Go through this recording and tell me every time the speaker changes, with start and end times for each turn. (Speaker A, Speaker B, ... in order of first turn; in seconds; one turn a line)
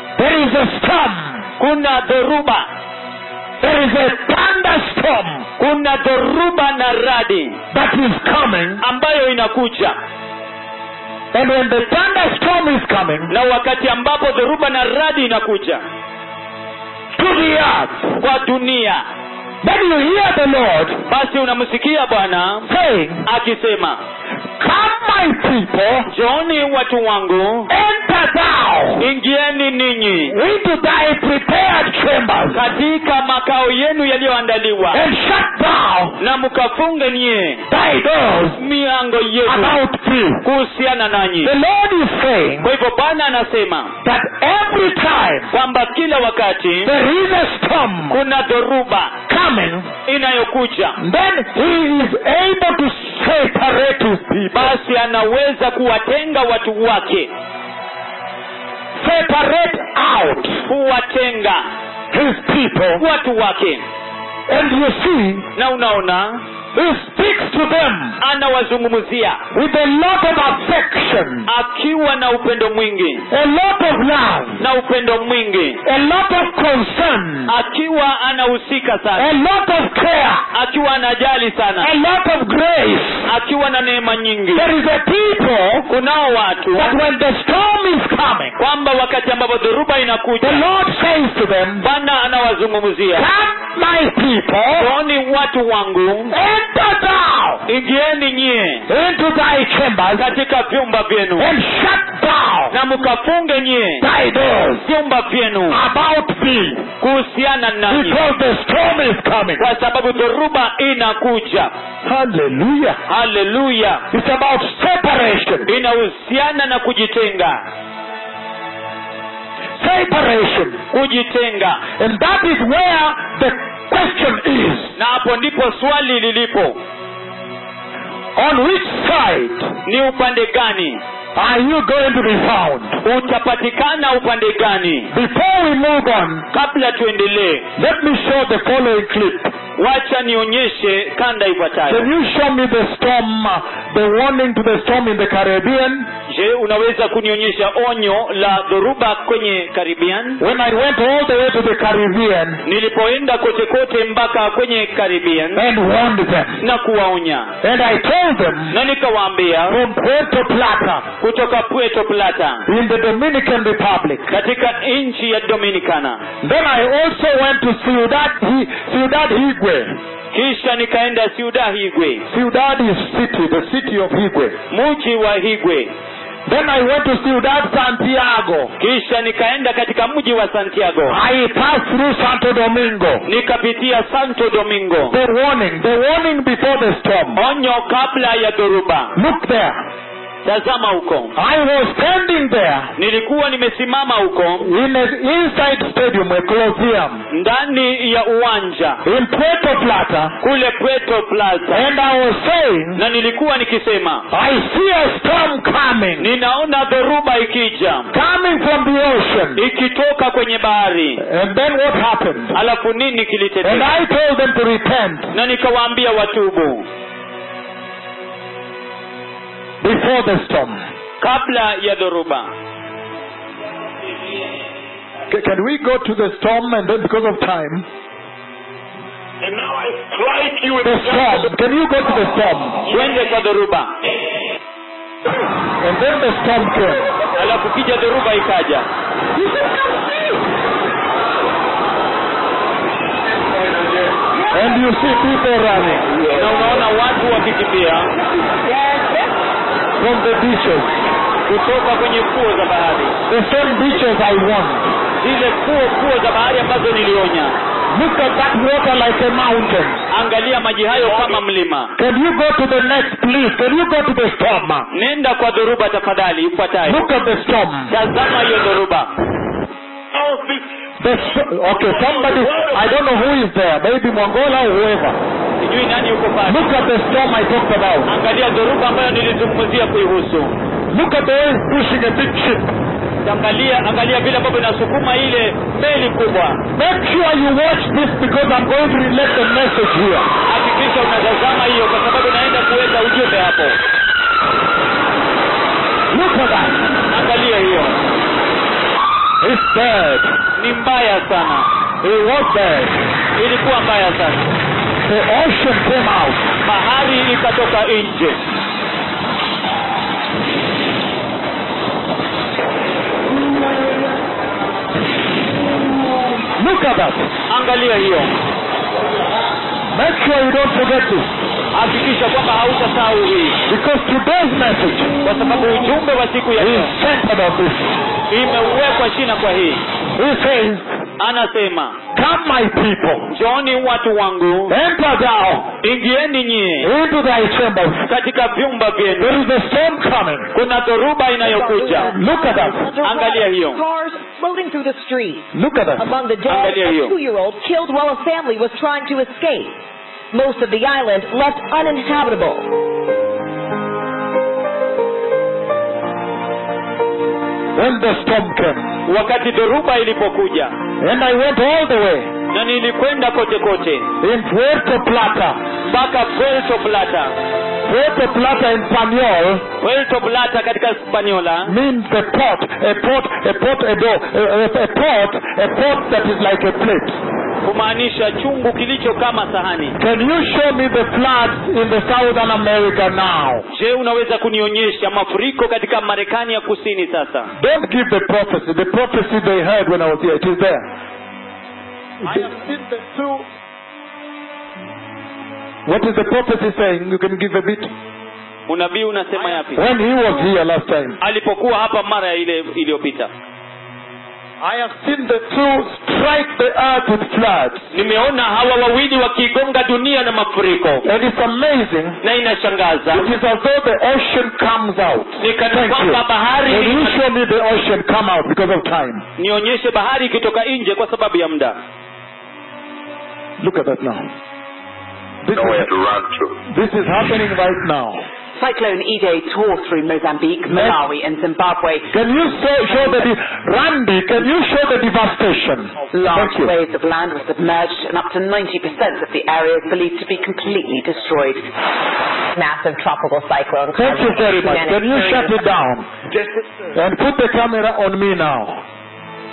Speaker A: 0.2-1.5
Speaker B: 1.6-2.7
Speaker A: 3.6-5.5
Speaker B: 5.6-7.6
Speaker A: 7.7-8.8
Speaker B: 8.8-10.0
Speaker A: 11.3-13.3
Speaker B: 13.3-15.8
Speaker A: 17.2-18.2
Speaker B: 18.2-19.0
Speaker A: 19.6-21.0
Speaker B: 21.1-22.7
Speaker A: 22.7-23.2
Speaker B: 23.2-24.0
Speaker A: 24.6-26.1
Speaker B: 26.1-27.7
Speaker A: 27.7-29.1
Speaker B: 29.0-30.4
Speaker A: 30.3-32.7
Speaker B: 32.5-35.0
Speaker A: 34.9-36.2
Speaker B: 36.2-37.7
Speaker A: 37.7-38.6
Speaker B: 38.6-39.8
Speaker A: 39.5-40.5
Speaker B: 40.4-41.5
Speaker A: 41.4-42.7
Speaker B: 42.6-44.0
Speaker A: 44.0-45.5
Speaker B: 45.5-46.9
Speaker A: 46.9-48.2
Speaker B: 48.1-49.2
Speaker A: 49.3-49.9
Speaker B: 50.1-51.0
Speaker A: 51.0-54.8
Speaker B: 54.5-57.3
Speaker A: 59.0-60.7
Speaker B: 60.7-61.6
Speaker A: 62.1-63.0
Speaker B: 63.0-63.8
Speaker A: 64.5-65.5
Speaker B: 65.6-66.4
Speaker A: 66.7-68.2
Speaker B: 68.2-69.4
Speaker A: 69.5-71.5
Speaker B: 71.5-73.3
Speaker A: 73.3-74.6
Speaker B: 74.6-75.8
Speaker A: 75.8-77.5
Speaker B: 77.5-79.3
Speaker A: 79.2-80.5
Speaker B: 80.5-81.9
Speaker A: 81.8-83.3
Speaker B: 83.2-84.7
Speaker A: 84.5-85.9
Speaker B: 85.9-87.0
Speaker A: 86.7-88.6
Speaker B: 88.6-90.7
Speaker A: 90.4-91.9
Speaker B: 91.8-93.3
Speaker A: 93.1-94.9
Speaker B: 94.8-96.3
Speaker A: 96.3-97.7
Speaker B: 97.7-98.9
Speaker A: 98.9-100.3
Speaker B: 100.2-101.5
Speaker A: 101.4-102.8
Speaker B: 102.7-104.1
Speaker A: 104.0-104.9
Speaker B: 104.8-105.8
Speaker A: 105.7-106.9
Speaker B: 107.0-108.2
Speaker A: 107.9-109.7
Speaker B: 109.6-111.7
Speaker A: 112.0-113.0
Speaker B: 113.1-114.1
Speaker A: 114.1-115.7
Speaker B: 115.7-117.7
Speaker A: 119.8-120.8
Speaker B: 120.9-121.8
Speaker A: 122.0-125.0
Speaker B: 125.0-126.8
Speaker A: 128.4-129.8
Speaker B: 129.8-131.0
Speaker A: 131.4-133.0
Speaker B: 133.0-135.1
Speaker A: 135.1-136.5
Speaker B: 136.5-137.7
Speaker A: 137.8-139.5
Speaker B: 139.8-142.1
Speaker A: 141.9-146.1
Speaker B: 146.3-150.4
Speaker A: 150.4-152.6
Speaker B: 152.7-155.6
Speaker A: 155.6-156.6
Speaker B: 156.6-157.5
Speaker A: 157.6-158.8
Speaker B: 158.7-159.8
Speaker A: 159.7-161.1
Speaker B: 161.2-162.7
Speaker A: 162.7-164.3
Speaker B: 164.3-166.2
Speaker A: 166.4-170.0
Speaker B: 170.3-172.3
Speaker A: 172.3-174.6
Speaker B: 174.7-175.9
Speaker A: 176.5-178.8
Speaker B: 178.8-181.2
Speaker A: 181.1-183.3
Speaker B: 183.3-185.2
Speaker A: 185.1-187.4
Speaker B: 187.3-189.2
Speaker A: 189.2-189.8
Speaker B: 190.4-191.3
Speaker A: 191.3-192.9
Speaker B: 193.0-194.7
Speaker A: 194.6-197.2
Speaker B: 197.3-199.0
Speaker A: 199.0-200.4
Speaker B: 200.4-201.8
Speaker A: 201.7-203.0
Speaker B: 203.0-204.3
Speaker A: 204.3-206.3
Speaker B: 206.2-208.1
Speaker A: 208.1-209.6
Speaker B: 209.6-211.2
Speaker A: 211.2-212.6
Speaker B: 212.5-213.9
Speaker A: 213.6-215.3
Speaker B: 215.3-216.9
Speaker A: 219.8-220.8
Speaker B: 221.2-222.5
Speaker A: 225.3-227.9
Speaker C: 229.4-231.5
Speaker A: 230.8-232.8
Speaker B: 232.9-233.9
Speaker A: 235.8-237.1
Speaker B: 237.4-238.9
Speaker A: 244.5-246.2
Speaker B: 246.3-248.1
Speaker A: 250.0-251.0
Speaker B: 251.5-253.2
Speaker A: 253.3-254.9
Speaker B: 255.2-257.6
Speaker A: 257.9-260.0
Speaker B: 260.1-261.9
Speaker A: 262.0-264.9
Speaker B: 264.9-267.0
Speaker A: 266.9-267.9
Speaker B: 267.9-269.1
Speaker C: 270.1-270.6
Speaker A: 271.0-275.2
Speaker C: 271.7-272.9
Speaker B: 275.6-276.7
Speaker A: 276.5-278.1
Speaker B: 278.1-280.6
Speaker A: 280.9-282.7
Speaker B: 283.2-286.6
Speaker A: 286.8-290.3
Speaker B: 290.5-293.8
Speaker A: 296.1-297.0
Speaker B: 297.1-298.0
Speaker A: 299.4-300.4
Speaker B: 300.6-301.7
Speaker A: 302.0-303.0
Speaker B: 303.4-304.5
Speaker A: 305.0-306.5
Speaker B: 306.6-308.5
Speaker A: 316.6-317.3
Speaker B: 317.5-318.4
Speaker A: 319.9-321.4
Speaker B: 321.7-323.6
Speaker A: 323.7-325.2
Speaker B: 325.2-326.9
Speaker A: 326.6-328.0
Speaker B: 328.3-329.9
Speaker A: 330.1-330.9
Speaker B: 331.2-332.0
Speaker A: 332.1-333.3
Speaker B: 333.3-334.8
Speaker A: 334.7-335.8
Speaker B: 335.8-336.9
Speaker A: 336.8-338.1
Speaker B: 338.1-339.4
Speaker A: 339.2-340.5
Speaker B: 340.5-342.1
Speaker D: 341.4-349.8
Speaker A: 342.1-342.9
Speaker B: 343.0-343.8
Speaker A: 345.5-346.1
Speaker B: 346.5-347.1
Speaker D: 350.3-352.7
Speaker A: 357.8-359.0
Speaker B: 359.1-360.8
Speaker A: 361.0-362.3
Speaker B: 362.5-364.1
Speaker A: 364.2-365.6
Speaker B: 365.9-367.4
Speaker A: 367.9-369.6
Speaker B: 369.8-371.8
Speaker A: 371.6-377.2
Speaker B: 377.6-380.0
Speaker A: 380.0-383.7
Speaker B: 383.7-387.5
Speaker A: 387.6-390.9
Speaker A: 392.2-393.4
Speaker A: 395.9-397.9
Speaker B: 398.7-399.9
Speaker A: 399.7-401.2
Speaker B: 401.2-403.3
Speaker A: 404.6-407.9
Speaker B: 407.9-411.1
Speaker A: 411.0-412.2
Speaker B: 412.2-413.3
Speaker A: 413.1-419.2
Speaker B: 415.4-417.2
Speaker B: 419.4-421.8
Speaker A: 423.6-424.3
Speaker A: 425.4-425.9
Speaker C: 425.5-426.6
Speaker A: 426.7-428.2
Speaker E: 428.6-432.2
Speaker A: 430.7-431.0
Speaker A: 432.1-436.7
Speaker E: 432.9-433.3
Speaker E: 436.1-441.7
Speaker D: 442.6-445.6
Speaker A: 443.9-446.1
Speaker A: 446.9-448.8